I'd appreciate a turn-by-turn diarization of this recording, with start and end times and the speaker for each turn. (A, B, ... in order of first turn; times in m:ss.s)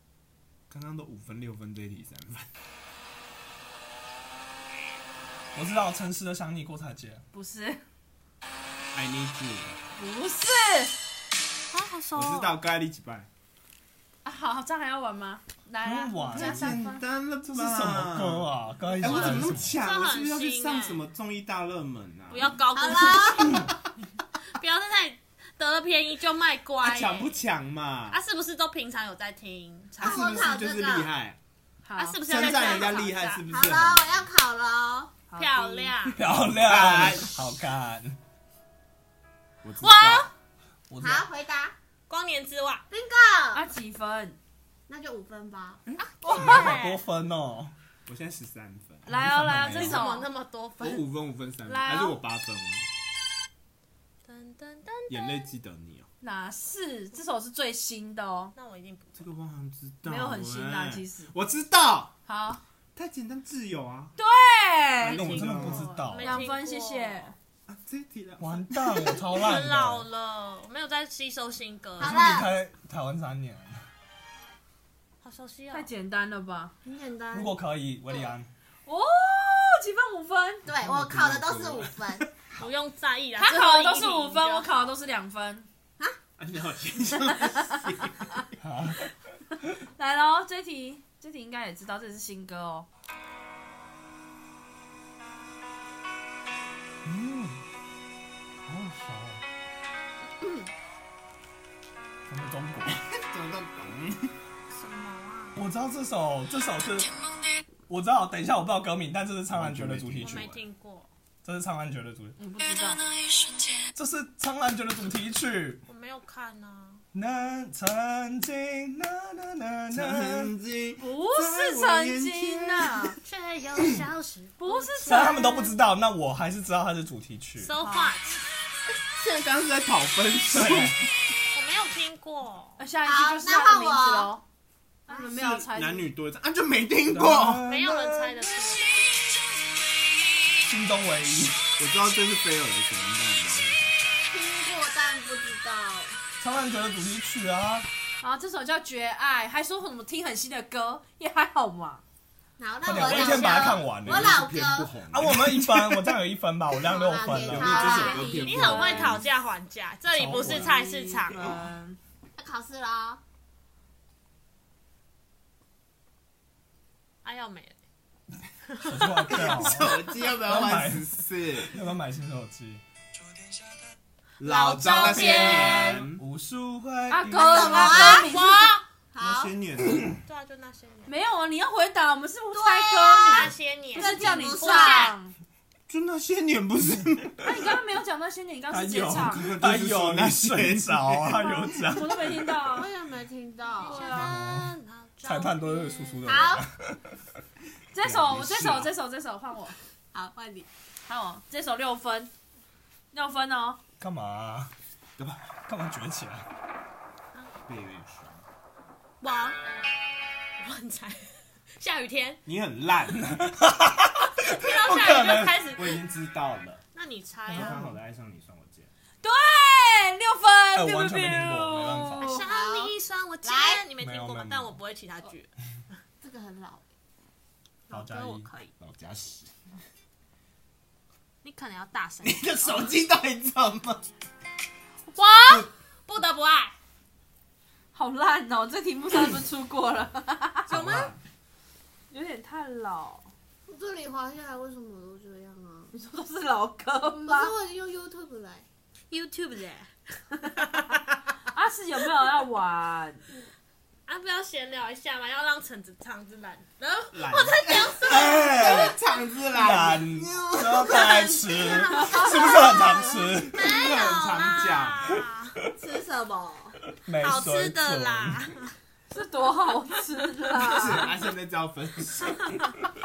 0:00.7-0:02.5 A
0:05.5-0:07.2 B
0:07.3-0:07.8 C
0:08.9-0:09.8 A
0:10.0-0:10.9 C
0:11.7-0:12.6 D
0:12.2-0:13.3 A
0:14.2-0:16.9 C
0:15.8-0:16.7 B
0:16.3-0:22.6 A
0:16.6-0:17.0 E
0:17.4-0:19.8 B
0:19.0-0:21.0 D
0:22.3-0:23.7 D
0:22.7-0:23.7 E
0:24.5-0:27.4 D
0:26.8-0:28.2 A
0:28.1-0:30.5 D
0:30.0-0:31.1 E
0:30.0-0:31.4 A
0:31.8-0:32.2 C
0:32.0-0:33.4 D
0:32.3-0:34.3 A
0:33.5-0:35.1 E
0:35.3-0:35.9 C
0:35.4-0:36.2 D
0:36.0-0:38.2 B
0:36.6-0:37.4 A
0:39.6-0:40.3 A
0:39.8-0:40.3 D
0:40.9-0:41.2 B
0:41.0-0:41.7 E
0:42.1-0:42.8 D
0:42.9-0:43.6 E
0:43.5-0:44.4 C
0:44.9-0:45.8 E
0:46.2-0:47.0 D
0:46.2-0:47.7 B
0:46.3-0:46.5 C
0:48.0-0:49.2 A
0:49.0-0:50.3 C
0:49.1-0:50.0 B
0:49.7-0:51.0 D
0:50.8-0:52.9 A
0:51.6-0:52.2 C
0:54.2-0:55.5 D
0:55.1-0:56.1 A
0:56.2-0:58.5 C
0:58.5-0:59.2 D
0:59.2-1:02.1 A
1:00.0-1:01.3 C
1:02.3-1:02.6 C
1:02.9-1:04.1 A
1:04.2-1:05.2 C
1:05.0-1:06.0 A
1:05.1-1:06.4 B
1:05.1-1:07.3 D
1:06.2-1:07.4 C
1:07.7-1:09.2 A
1:08.4-1:10.0 B
1:09.2-1:12.3 D
1:12.0-1:12.5 E
1:12.0-1:13.8 B
1:15.2-1:15.9 D
1:15.7-1:16.7 C
1:16.8-1:17.5 E
1:17.3-1:18.5 B
1:18.9-1:20.6 C
1:20.6-1:22.3 E
1:20.8-1:21.9 B
1:21.0-1:21.8 A
1:22.5-1:24.8 D
1:23.4-1:25.7 C
1:26.4-1:28.4 A
1:28.6-1:29.1 B
1:30.0-1:32.9 C
1:37.0-1:37.6 B
1:38.6-1:39.4 B
1:42.3-1:43.0 B
1:43.1-1:44.3 A
1:44.7-1:45.6 D
1:45.6-1:47.1 B
1:47.9-1:50.6 B
1:49.5-1:50.6 A
1:50.2-1:51.1 D
1:51.4-1:52.3 B
1:52.4-1:53.1 C
1:53.9-1:55.8 B
1:55.9-1:57.0 D
1:57.1-2:00.5 B
1:59.9-2:03.2 A
2:01.0-2:03.2 C
2:03.2-2:05.4 D
2:04.6-2:05.7 C
2:05.0-2:07.7 B
2:07.6-2:08.4 D
2:07.8-2:08.2 C
2:09.2-2:11.0 A
2:10.5-2:11.0 B
2:11.5-2:12.8 D
2:12.8-2:14.4 C
2:13.0-2:14.4 E
2:15.1-2:16.1 C
2:15.1-2:17.6 A
2:17.1-2:18.4 B
2:17.6-2:18.9 D
2:20.6-2:21.6 B
2:21.8-2:24.2 A
2:24.3-2:26.2 E
2:26.4-2:27.9 B
2:28.2-2:32.0 C
2:32.6-2:34.9 E
2:32.8-2:34.4 B
2:33.0-2:36.1 A
2:35.1-2:38.0 B
2:36.8-2:38.4 E
2:37.3-2:39.2 A
2:37.6-2:39.2 C
2:38.2-2:41.6 D
2:40.1-2:40.7 B
2:40.3-2:42.0 C
2:42.4-2:43.2 E
2:47.2-2:47.8 D
2:48.7-2:49.6 D
2:48.8-2:52.8 B
2:49.4-2:51.7 A
2:54.4-2:56.2 A
2:54.4-2:56.0 D
2:54.9-2:55.8 C
2:55.0-2:58.2 B
2:57.1-2:58.7 C
2:57.3-2:58.3 E
2:57.9-2:58.8 D
2:59.1-2:59.5 E
2:59.2-3:00.2 A
3:00.2-3:01.1 D
3:01.1-3:05.3 C
3:02.5-3:05.1 E
3:03.0-3:05.1 D
3:05.9-3:07.5 A
3:07.4-3:09.5 C
3:08.7-3:12.4 B
3:09.2-3:11.5 A
3:11.4-3:12.9 C
3:12.6-3:14.2 E
3:13.8-3:16.3 D
3:13.9-3:14.2 C
3:14.1-3:17.1 B
3:16.2-3:16.6 E
3:17.9-3:19.8 C
3:18.0-3:18.9 A
3:20.1-3:20.7 E
3:21.1-3:22.3 C
3:23.1-3:23.8 C
3:24.0-3:24.7 B
3:25.7-3:26.5 B
3:27.7-3:28.4 A
3:29.2-3:29.6 D
3:30.6-3:32.4 D
3:32.4-3:33.3 A
3:33.1-3:35.6 B
3:34.4-3:36.0 D
3:35.0-3:36.8 A
3:36.9-3:37.9 D
3:37.5-3:38.9 A
3:37.5-3:37.9 B
3:39.2-3:42.4 C
3:40.7-3:42.2 B
3:42.2-3:45.5 D
3:42.4-3:43.9 E
3:44.0-3:44.7 B
3:46.2-3:46.8 E
3:47.9-3:48.7 D
3:47.9-3:48.5 B
3:48.8-3:49.5 A
3:51.4-3:52.9 D
3:52.2-3:54.0 A
3:55.1-3:56.7 D
3:57.9-4:00.7 C
4:00.7-4:01.1 E
4:00.7-4:01.2 B
4:00.7-4:01.2 A
4:02.1-4:03.3 C
4:03.7-4:05.9 E
4:05.9-4:07.5 C
4:07.1-4:08.6 E
4:09.1-4:09.9 D
4:10.6-4:11.0 D
4:11.5-4:13.2 C
4:14.1-4:18.4 D
4:17.1-4:21.4 A
4:18.1-4:19.0 B
4:19.5-4:23.6 B
4:21.5-4:22.7 D
4:23.5-4:25.2 A
4:23.5-4:25.6 D
4:25.8-4:26.8 E
4:27.0-4:28.4 B
4:27.2-4:28.7 D
4:29.1-4:31.1 C
4:30.6-4:32.6 A